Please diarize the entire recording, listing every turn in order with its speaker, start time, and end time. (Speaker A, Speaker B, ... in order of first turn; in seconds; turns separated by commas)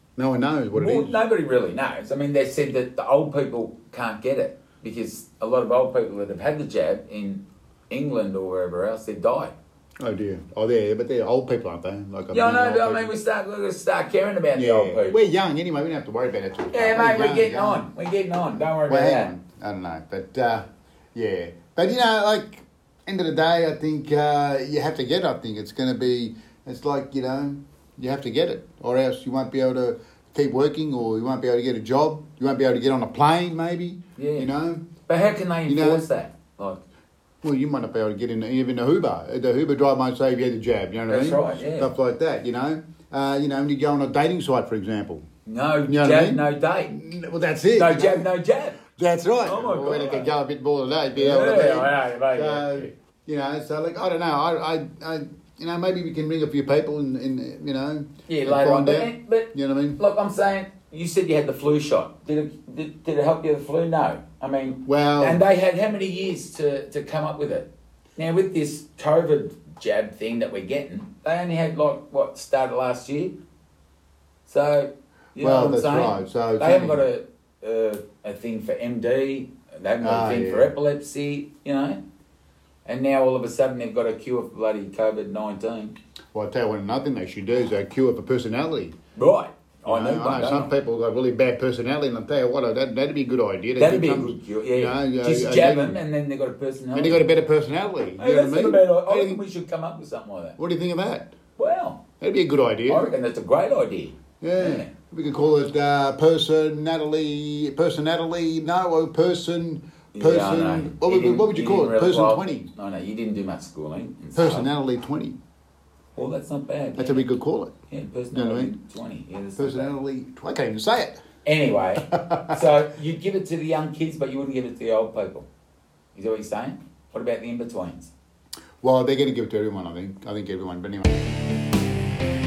Speaker A: 0.2-1.2, Speaker B: 0.7-9.5, Speaker A: 10.0-13.2, Speaker B: 12.3-15.2, Speaker A: 14.6-17.9, Speaker B: 16.7-19.3, Speaker A: 18.9-20.6, Speaker A: 21.1-34.9, Speaker B: 34.2-34.5, Speaker B: 35.1-36.8, Speaker A: 35.7-36.1, Speaker A: 37.4-45.2, Speaker B: 41.1-41.9, Speaker B: 45.5-47.0, Speaker A: 45.9-48.3, Speaker B: 47.7-48.8, Speaker A: 49.0-60.0, Speaker B: 49.4-50.3, Speaker B: 51.2-52.9, Speaker B: 58.3-73.4, Speaker A: 64.9-65.5, Speaker B: 74.5-82.0, Speaker A: 75.4-77.0, Speaker A: 80.0-80.7, Speaker B: 82.9-86.0, Speaker A: 86.3-89.0, Speaker B: 89.2-90.7, Speaker A: 89.8-96.0, Speaker B: 93.8-97.2, Speaker A: 96.9-99.4, Speaker B: 98.2-100.6, Speaker A: 100.6-101.3, Speaker B: 101.6-102.0, Speaker A: 102.2-103.1, Speaker B: 102.9-104.9, Speaker A: 104.4-112.7, Speaker B: 110.2-114.7, Speaker A: 114.3-115.4, Speaker B: 116.2-117.2, Speaker A: 117.0-117.7, Speaker B: 117.9-119.9, Speaker A: 118.3-118.8, Speaker A: 119.6-121.2, Speaker B: 121.5-125.5, Speaker A: 122.1-122.7, Speaker B: 126.2-128.1, Speaker A: 128.8-131.1